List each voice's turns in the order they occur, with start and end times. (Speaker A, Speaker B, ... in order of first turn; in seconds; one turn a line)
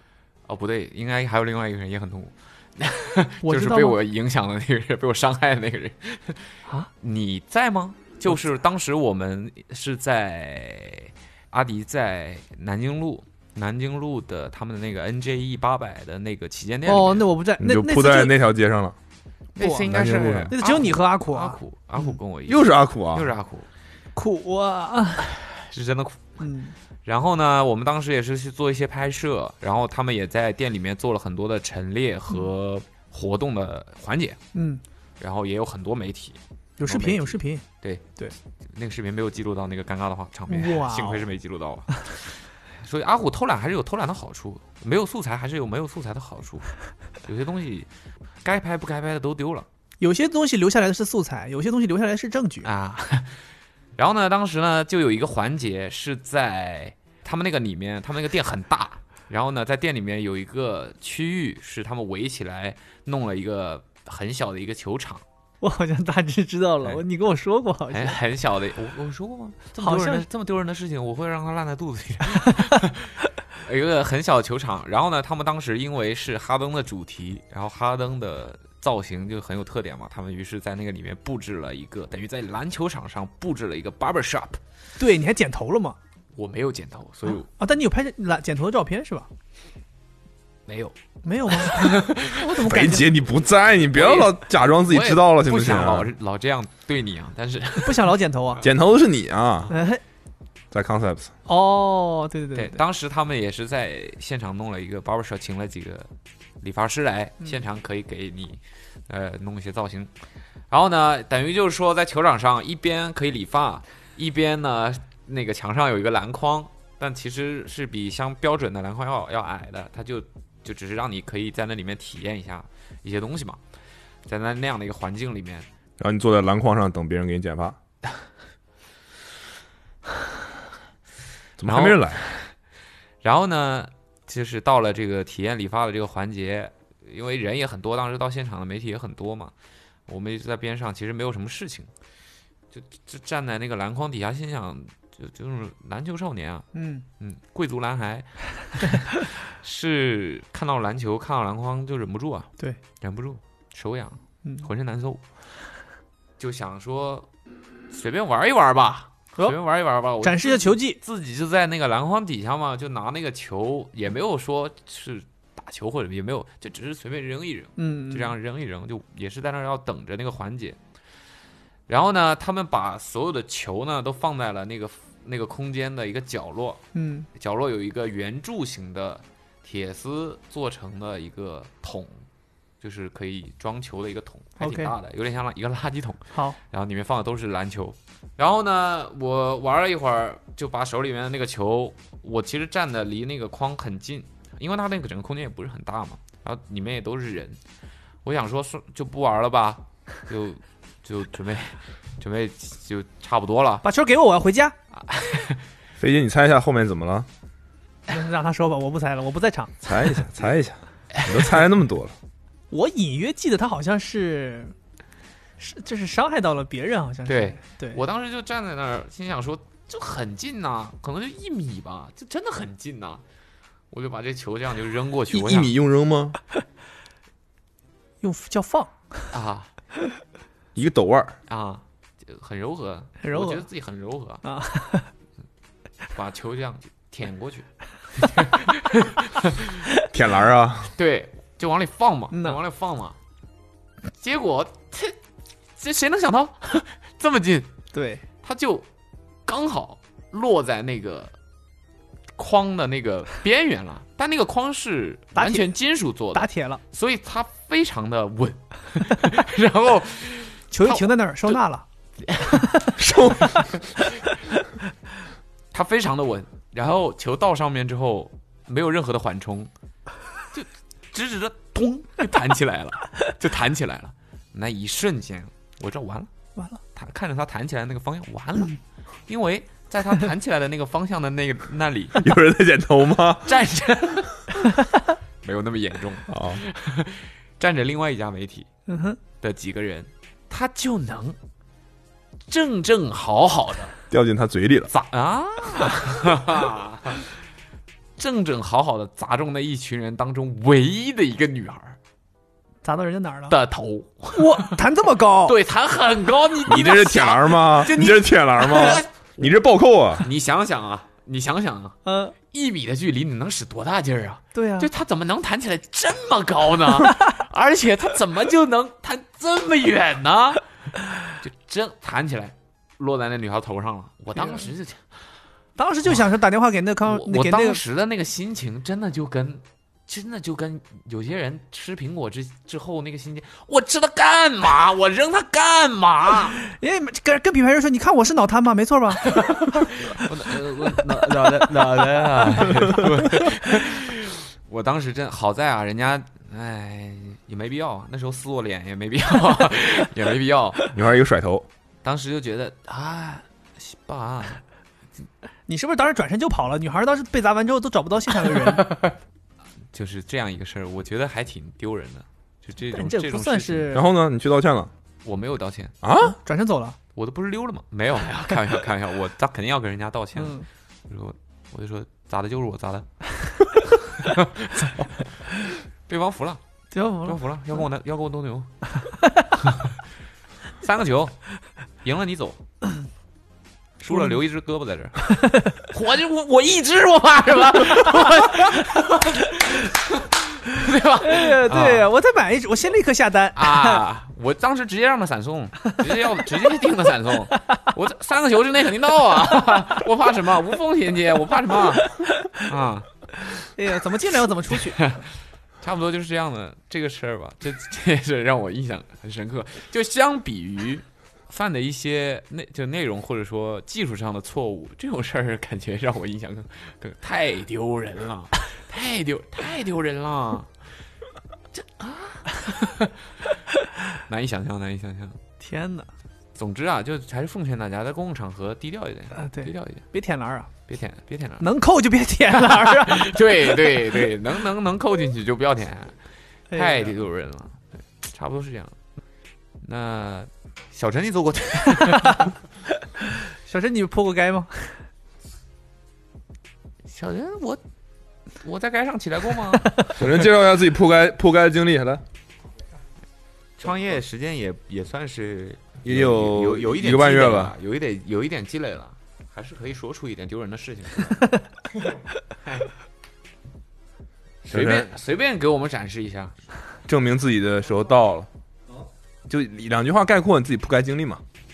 Speaker A: 0.5-17.2
Speaker B: 3.4-4.0
Speaker B: 16.9-18.4
Speaker C: 17.6-18.9
Speaker A: 19.6-23.7
Speaker B: 19.6-19.9
Speaker C: 19.9-20.5
Speaker B: 20.5-22.0
Speaker C: 22.5-23.3
Speaker B: 24.1-25.3
Speaker A: 25.3-26.4
Speaker B: 26.4-26.7
Speaker A: 27.0-34.4
Speaker B: 34.5-34.8
Speaker A: 35.2-38.0
Speaker B: 36.8-37.6
Speaker A: 38.6-46.7
Speaker B: 40.5-41.2
Speaker A: 47.2-47.9
Speaker A: 48.4-49.7
Speaker B: 50.0-52.7
Speaker A: 52.6-53.4
Speaker A: 54.0-65.2
Speaker B: 65.6-68.2
Speaker A: 67.9-84.6
Speaker B: 69.8-70.3
Speaker B: 85.0-86.0
Speaker A: 86.3-87.5
Speaker B: 87.3-89.3
Speaker A: 90.7-90.9
Speaker B: 91.2-93.1
Speaker A: 91.5-92.6
Speaker C: 92.6-96.1
Speaker A: 93.9-98.1
Speaker B: 97.8-98.6
Speaker C: 98.6-99.7
Speaker B: 99.7-100.0
Speaker C: 100.7-101.3
Speaker B: 101.5-102.8
Speaker A: 102.5-106.1
Speaker A: 106.6-110.1
Speaker A: 110.7-123.6
Speaker A: 124.2-125.7
Speaker C: 126.0-127.8
Speaker C: 131.6-132.4
Speaker A: 131.6-132.5
Speaker A: 133.2-139.5
Speaker A: 140.1-141.9
Speaker A: 142.7-146.7
Speaker B: 146.7-147.0
Speaker A: 147.2-155.2
Speaker A: 156.4-157.3
Speaker A: 157.9-170.8
Speaker B: 160.2-161.0
Speaker B: 167.8-168.3
Speaker A: 171.9-176.8
Speaker B: 176.9-177.3
Speaker A: 177.3-182.2
Speaker A: 182.8-197.6
Speaker B: 184.6-184.9
Speaker A: 198.2-203.8
Speaker B: 203.8-204.7
Speaker A: 204.9-205.6
Speaker C: 206.0-207.3
Speaker B: 208.1-209.7
Speaker C: 209.8-212.1
Speaker A: 211.2-211.4
Speaker B: 212.7-214.7
Speaker B: 215.6-218.0
Speaker A: 217.2-223.2
Speaker A: 223.9-225.7
Speaker C: 225.3-226.4
Speaker B: 228.2-229.3
Speaker A: 229.3-229.7
Speaker C: 230.7-231.4
Speaker A: 231.5-234.4
Speaker B: 233.2-233.7
Speaker B: 234.4-235.1
Speaker A: 236.1-239.8
Speaker C: 240.1-240.9
Speaker A: 240.9-243.2
Speaker B: 242.3-242.6
Speaker A: 244.2-245.2
Speaker A: 245.8-247.7
Speaker B: 247.9-248.2
Speaker A: 248.4-248.8
Speaker A: 249.4-251.3
Speaker A: 252.3-261.6
Speaker B: 255.3-255.7
Speaker B: 256.3-256.8
Speaker B: 260.7-261.8
Speaker A: 262.2-262.8
Speaker B: 262.5-262.9
Speaker C: 262.9-263.7
Speaker A: 265.7-269.7
Speaker A: 270.5-276.3
Speaker A: 276.9-282.2
Speaker C: 282.2-283.6
Speaker A: 283.4-284.8
Speaker A: 285.4-288.7
Speaker C: 286.3-286.6
Speaker B: 288.9-289.2
Speaker A: 289.4-291.4
Speaker A: 292.5-293.9
Speaker C: 294.1-294.9
Speaker A: 294.9-297.3
Speaker A: 298.2-302.0
Speaker B: 302.8-303.5
Speaker A: 303.5-304.8
Speaker B: 304.3-305.6
Speaker A: 305.4-309.5
Speaker C: 306.6-310.3
Speaker A: 310.2-320.6
Speaker B: 312.0-312.3
Speaker B: 314.5-314.9
Speaker A: 321.4-325.0
Speaker B: 324.3-324.7
Speaker B: 325.8-327.8
Speaker A: 327.0-336.6
Speaker B: 336.6-339.3
Speaker A: 339.2-350.9
Speaker C: 350.9-351.7
Speaker A: 352.0-354.6
Speaker B: 355.7-358.9
Speaker A: 358.5-359.1
Speaker A: 359.9-363.9
Speaker B: 362.9-364.0
Speaker C: 363.9-364.9
Speaker A: 365.2-365.9
Speaker C: 366.0-366.4
Speaker B: 366.2-367.0
Speaker A: 367.1-370.6
Speaker B: 370.4-370.7
Speaker A: 371.1-373.1
Speaker A: 374.1-375.0
Speaker A: 376.1-376.6
Speaker B: 376.9-377.4
Speaker A: 377.2-378.7
Speaker A: 379.6-380.0
Speaker A: 380.8-381.4
Speaker A: 382.0-382.6
Speaker A: 384.0-392.1
Speaker B: 384.1-384.4
Speaker B: 385.4-385.8
Speaker B: 391.2-394.0
Speaker A: 393.6-403.1
Speaker B: 402.1-402.6
Speaker B: 403.4-405.2
Speaker A: 404.9-405.2
Speaker A: 405.8-420.7
Speaker A: 421.7-423.5
Speaker A: 424.3-425.4
Speaker B: 425.6-426.1
Speaker A: 426.6-430.0
Speaker B: 429.4-430.7
Speaker A: 430.9-431.7
Speaker B: 431.6-433.5
Speaker A: 432.5-436.1
Speaker B: 436.7-437.1
Speaker A: 436.7-438.9
Speaker A: 439.8-442.5
Speaker B: 442.2-442.5
Speaker B: 443.2-445.0
Speaker A: 447.1-447.8
Speaker A: 448.6-450.2
Speaker C: 450.1-452.2
Speaker A: 453.8-461.6
Speaker C: 456.0-457.8
Speaker A: 464.6-466.6
Speaker C: 464.7-465.1
Speaker C: 467.1-468.5
Speaker C: 469.5-471.4